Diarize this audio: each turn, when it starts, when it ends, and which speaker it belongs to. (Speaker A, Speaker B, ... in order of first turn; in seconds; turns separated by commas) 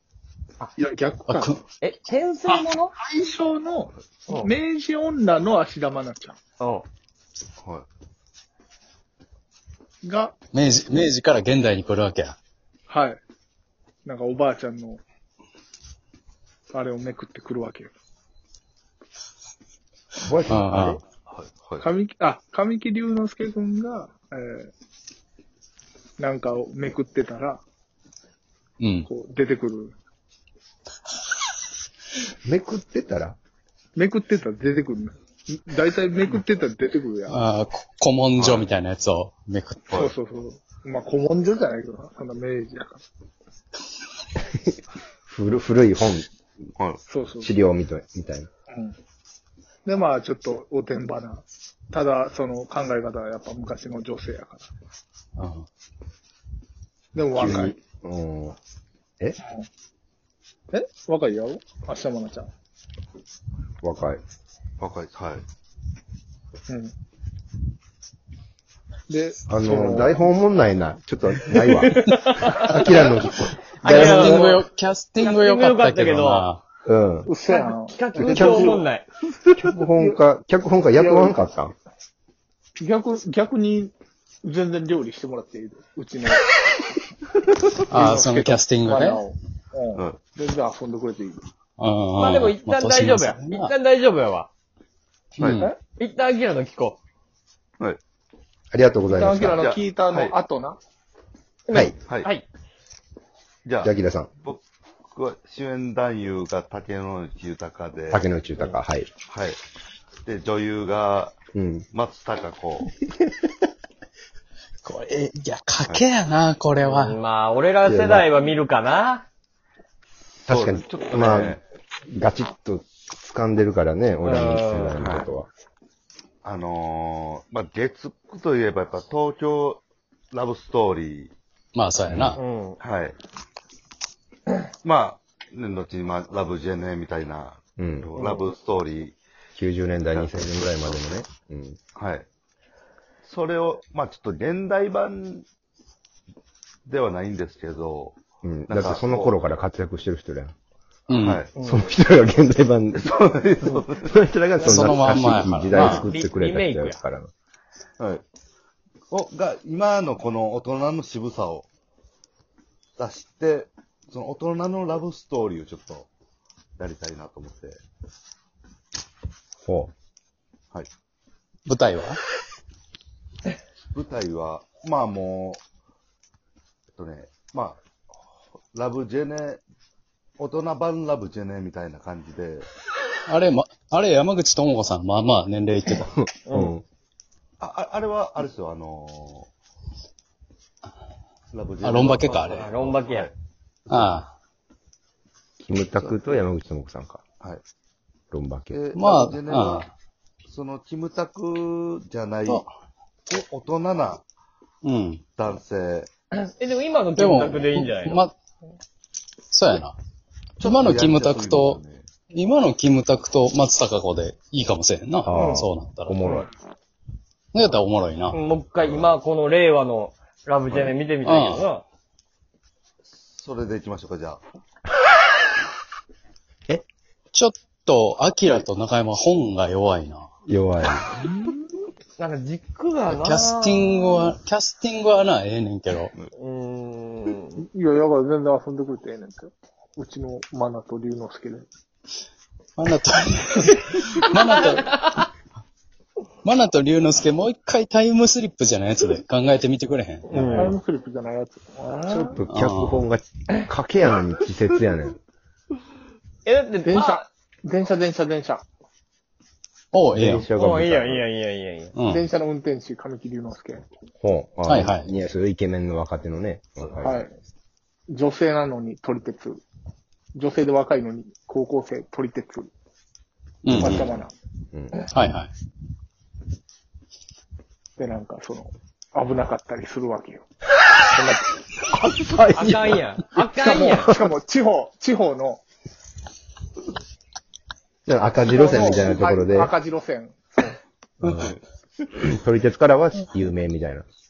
Speaker A: 0.8-1.6, Speaker B: 1.3-1.6, Speaker C: 1.8-2.9, Speaker A: 2.5-6.4, Speaker C: 6.6-6.9, Speaker D: 7.6-7.9, Speaker A: 10.0-10.3, Speaker B: 10.5-12.4, Speaker A: 12.9-13.2, Speaker A: 14.1-15.0, Speaker A: 16.7-17.9, Speaker E: 20.2-21.0, Speaker B: 20.5-21.0, Speaker D: 21.3-21.9, Speaker A: 21.8-24.7, Speaker A: 26.2-27.6, Speaker B: 28.8-29.1, Speaker A: 29.1-29.9, Speaker E: 32.5-33.4, Speaker A: 34.0-37.4, Speaker B: 37.3-39.9, Speaker D: 38.4-38.7, Speaker D: 39.9-40.1, Speaker A: 39.9-43.0, Speaker E: 45.3-46.3, Speaker A: 47.1-47.5, Speaker E: 47.4-48.5, Speaker A: 49.9-54.7, Speaker B: 55.4-55.6, Speaker A: 57.1-57.8, Speaker E: 57.4-58.6, Speaker A: 60.7-62.5, Speaker E: 63.8-64.2, Speaker D: 64.8-65.4, Speaker A: 69.1-70.2, Speaker E: 69.5-74.5, Speaker C: 71.8-72.7, Speaker B: 73.8-76.6, Speaker C: 73.8-74.6, Speaker C: 75.2-76.5, Speaker E: 76.9-77.3, Speaker A: 77.3-78.8, Speaker C: 77.5-79.1, Speaker E: 78.2-78.8, Speaker E: 79.6-81.8, Speaker A: 80.9-81.4, Speaker A: 82.8-86.6, Speaker B: 87.9-89.2, Speaker A: 87.9-91.4, Speaker B: 91.8-93.7, Speaker C: 92.2-94.5, Speaker D: 95.4-95.7, Speaker B: 95.4-95.7, Speaker C: 95.8-97.0, Speaker E: 98.7-99.6, Speaker A: 99.1-100.8, Speaker D: 99.6-100.3, Speaker C: 101.7-102.5, Speaker D: 103.7-103.9, Speaker E: 103.8-104.3, Speaker D: 104.4-108.3, Speaker E: 108.1-109.1, Speaker D: 109.3-109.6, Speaker D: 110.2-111.3, Speaker E: 111.5-111.9, Speaker D: 111.9-112.9, Speaker B: 114.8-117.2, Speaker C: 116.8-119.3, Speaker E: 117.8-118.3, Speaker D: 120.5-121.6, Speaker E: 120.5-121.6, Speaker E: 122.1-125.5, Speaker C: 124.2-125.0, Speaker D: 125.0-125.3, Speaker D: 126.4-131.3, Speaker B: 131.8-132.4, Speaker D: 132.1-133.2, Speaker C: 132.4-132.8, Speaker D: 134.8-139.2, Speaker E: 137.8-138.1, Speaker C: 138.2-138.5, Speaker E: 139.6-141.8, Speaker D: 140.1-141.1, Speaker D: 142.0-142.3, Speaker D: 143.2-145.4, Speaker D: 146.9-148.2, Speaker E: 148.4-150.5, Speaker D: 148.7-149.3, Speaker B: 151.1-151.4, Speaker D: 151.2-151.5, Speaker C: 151.6-151.9, Speaker E: 151.6-153.2, Speaker D: 153.0-154.7, Speaker E: 154.0-157.3, Speaker C: 154.6-154.9, Speaker B: 154.7-156.1, Speaker C: 155.7-157.0, Speaker D: 159.1-161.7, Speaker D: 163.0-166.1, Speaker D: 166.8-167.8, Speaker E: 169.7-169.9, Speaker B: 171.7-172.2, Speaker D: 173.8-175.6, Speaker D: 176.9-177.8, Speaker D: 178.7-179.6, Speaker D: 180.4-182.7, Speaker B: 183.3-186.0, Speaker E: 185.9-186.8, Speaker C: 186.5-186.7, Speaker D: 187.6-189.5, Speaker D: 191.5-193.3, Speaker B: 191.8-192.7, Speaker C: 192.5-193.3, Speaker B: 193.9-194.3, Speaker E: 195.6-197.2, Speaker E: 198.3-198.8, Speaker D: 198.7-199.9, Speaker B: 198.9-199.9, Speaker D: 200.5-202.7, Speaker D: 203.3-204.2, Speaker B: 204.8-205.2, Speaker D: 205.3-206.1, Speaker C: 206.3-208.2, Speaker B: 207.2-208.3, Speaker B: 209.5-209.9, Speaker B: 210.6-211.8, Speaker D: 210.6-212.1, Speaker B: 212.3-216.2, Speaker E: 215.3-216.5, Speaker C: 215.3-215.7, Speaker B: 217.5-218.4, Speaker C: 218.3-221.8, Speaker D: 218.8-219.1, Speaker D: 220.7-221.0, Speaker B: 221.2-221.7, Speaker D: 223.0-224.4, Speaker B: 227.3-230.3, Speaker E: 230.5-231.1, Speaker A: 231.1-231.6, Speaker C: 232.2-233.9, Speaker B: 233.1-236.1, Speaker C: 236.3-237.6, Speaker A: 237.6-241.7, Speaker B: 242.8-245.3, Speaker B: 246.4-250.6, Speaker C: 250.3-250.8, Speaker A: 250.3-252.4, Speaker E: 252.1-255.2, Speaker B: 252.5-253.1, Speaker C: 256.4-257.2, Speaker A: 256.9-258.6, Speaker B: 259.9-260.4, Speaker E: 260.1-261.3, Speaker C: 260.6-261.9, Speaker B: 261.9-262.2, Speaker A: 262.1-263.8, Speaker E: 264.2-267.2, Speaker B: 264.7-265.1, Speaker A: 267.0-267.3, Speaker A: 268.1-269.6, Speaker A: 270.4-272.7, Speaker B: 273.6-274.1, Speaker E: 273.7-274.2, Speaker A: 273.8-274.3, Speaker B: 275.0-275.5, Speaker A: 278.0-280.4, Speaker A: 281.1-281.6, Speaker E: 282.2-283.1, Speaker C: 282.6-284.1, Speaker A: 283.6-285.6, Speaker E: 288.1-289.7, Speaker A: 288.5-290.8, Speaker B: 291.2-291.6, Speaker D: 291.4-292.1, Speaker E: 292.2-294.1